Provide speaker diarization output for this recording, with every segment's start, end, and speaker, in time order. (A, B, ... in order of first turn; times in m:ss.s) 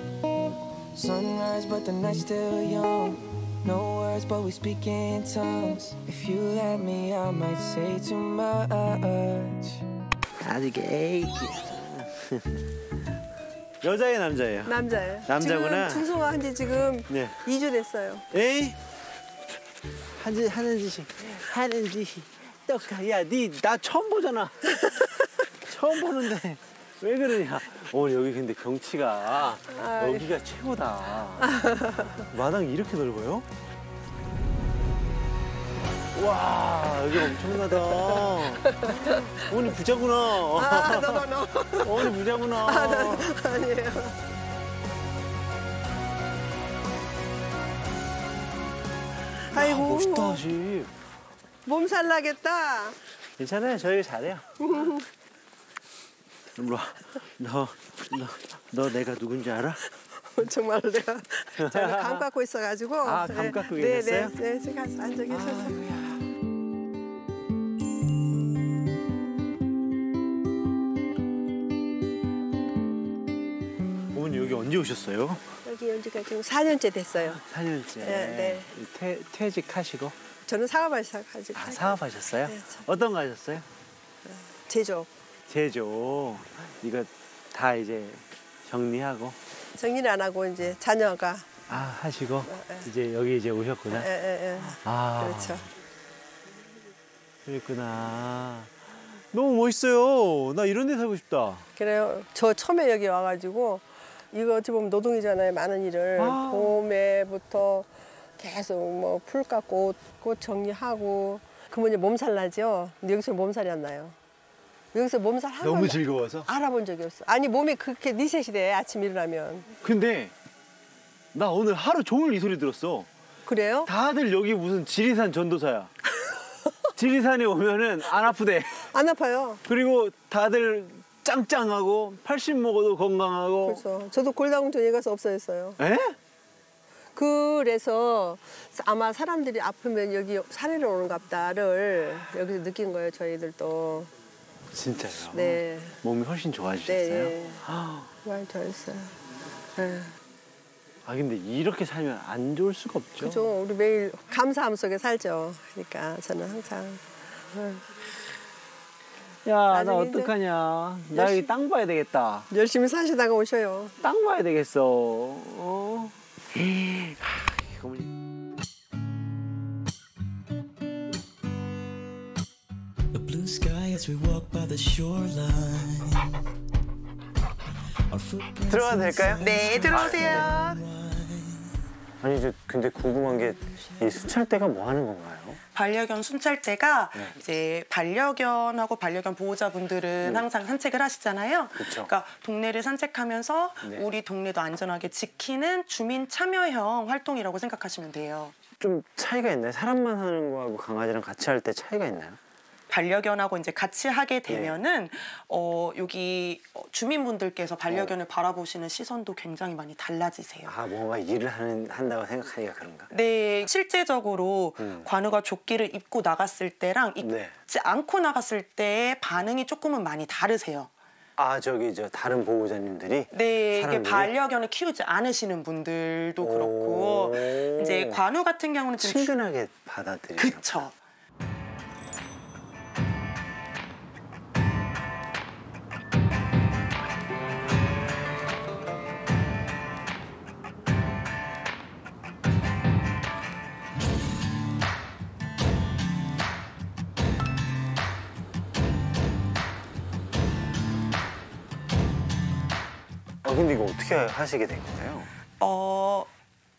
0:00.9-0:09.8 A
0:10.4-0:12.5 B
0:13.8-0:16.1 B
0:14.7-0:18.2 C
0:17.1-0:17.4 B
0:18.3-0:18.8 B
0:20.2-0:33.5 B
0:29.7-0:30.3 C
0:31.4-0:32.2 C
0:36.1-0:41.2 B
0:40.5-0:42.1 C
0:41.8-0:43.3 B
0:42.6-0:44.1 C
0:49.5-0:50.9 B
0:49.5-0:50.4 C
0:51.7-0:53.0 C
0:53.4-0:54.5 B
0:54.6-0:55.0 C
0:56.6-0:59.8 B
1:00.3-1:05.8 C
1:01.6-1:02.3 B
1:03.0-1:04.4 B
1:05.3-1:06.2 B
1:14.1-1:15.5 B
1:15.6-1:17.4 C
1:17.2-1:20.2 B
1:18.0-1:18.7 C
1:20.5-1:22.8 C
1:21.6-1:23.7 B
1:24.3-1:25.1 C
1:25.5-1:29.4 B
1:29.8-1:31.5 C
1:31.7-1:34.1 B
1:32.5-1:32.8 C
1:33.9-1:35.6 C
1:34.6-1:35.6 B
1:37.4-1:38.7 B
1:39.3-1:41.6 B
1:41.8-1:54.2 C
1:46.2-1:46.8 B
1:54.9-1:59.6 C
1:55.6-1:56.5 B
1:59.8-2:00.3 B
2:01.3-2:03.1 B
2:03.5-2:03.9 C
2:03.8-2:05.9 B
2:07.0-2:08.9 B
2:08.9-2:09.6 C
2:09.6-2:13.8 B
2:13.6-2:15.8 C
2:15.8-2:16.2 B
2:17.2-2:24.1 C
2:24.7-2:28.1 B
2:25.3-2:25.9 C
2:26.9-2:27.6 C
2:28.2-2:29.2 C
2:29.8-2:30.1 C
2:31.0-2:33.5 B
2:33.2-2:37.8 C
2:39.4-2:42.5 B
2:39.7-2:40.3 C
2:41.1-2:41.5 C
2:42.5-2:43.9 C
2:44.0-2:48.1 B
2:53.1-2:56.4 D
2:58.1-3:01.7 D
2:58.7-3:00.5 B
2:59.4-3:00.8 E
3:02.2-3:05.6 B
3:05.7-3:18.6 E
3:11.8-3:12.1 B
3:18.8-3:22.4 B
3:22.9-3:30.7 E
3:24.5-3:24.8 B
3:27.9-3:28.2 B
3:30.7-3:33.1 B
3:33.1-3:40.9 E
3:34.8-3:35.1 B
3:37.2-3:37.5 B
3:41.4-3:44.3 B
3:43.3-3:49.3 E
3:46.4-3:48.2 B
3:49.0-3:50.9 B
3:50.4-3:50.9 E
4:13.4-4:15.3 B
4:15.6-4:16.3 E